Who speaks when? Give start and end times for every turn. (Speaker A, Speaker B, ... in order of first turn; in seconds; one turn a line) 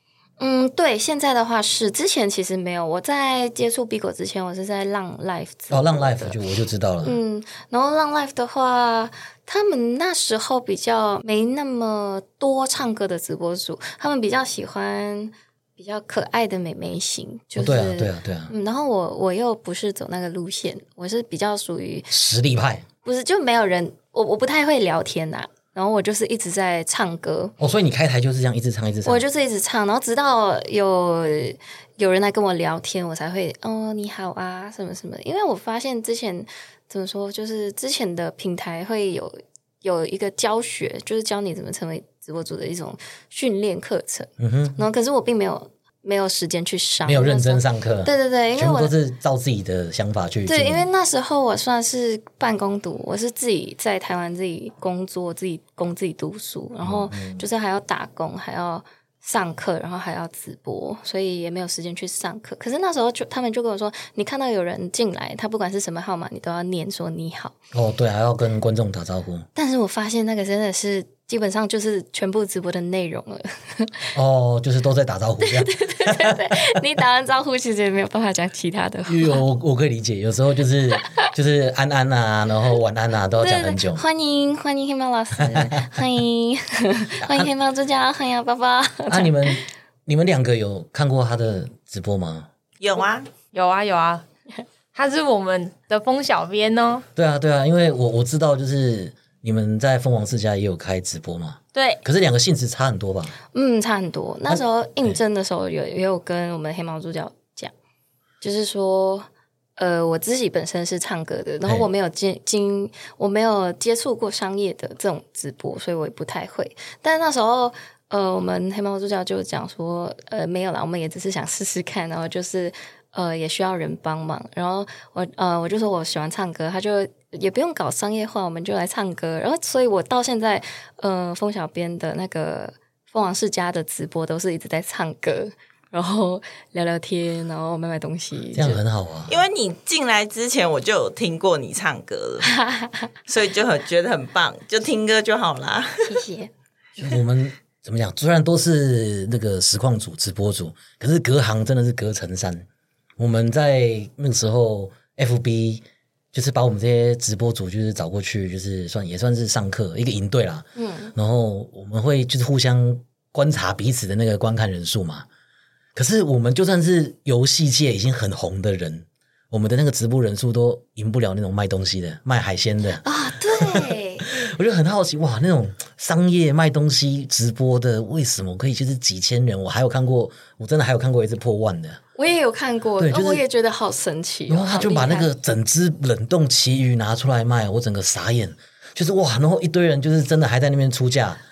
Speaker A: 0.4-6.4
Speaker B: 5.7-7.2
Speaker A: 7.0-22.1
Speaker B: 17.6-18.5
Speaker B: 22.1-22.9
Speaker A: 23.0-27.5
Speaker B: 27.6-29.2
Speaker A: 29.0-48.9
Speaker B: 44.4-44.8
Speaker B: 47.0-50.9
Speaker A: 50.5-67.5
Speaker B: 56.8-57.4
Speaker B: 67.7-69.5
Speaker A: 69.5-74.1
Speaker B: 74.1-76.4
Speaker A: 75.4-79.4
Speaker B: 79.1-84.0
Speaker A: 83.3-89.6
Speaker B: 85.4-85.7
Speaker B: 87.2-87.5
Speaker B: 89.1-92.5
Speaker C: 92.8-93.3
Speaker D: 93.5-94.2
Speaker D: 94.9-97.0
Speaker B: 97.2-103.3
Speaker D: 101.7-102.0
Speaker A: 103.5-107.7
Speaker B: 104.5-105.2
Speaker A: 108.4-138.8
Speaker B: 138.5-139.4
Speaker C: 139.3-142.5
Speaker A: 142.4-143.1
Speaker C: 143.3-146.2
Speaker A: 146.0-146.5
Speaker B: 147.0-152.7
Speaker B: 153.2-165.2
Speaker A: 160.8-161.1
Speaker B: 165.9-182.0
Speaker A: 173.0-174.3
Speaker A: 182.2-185.3
Speaker B: 183.0-183.4
Speaker B: 184.5-191.4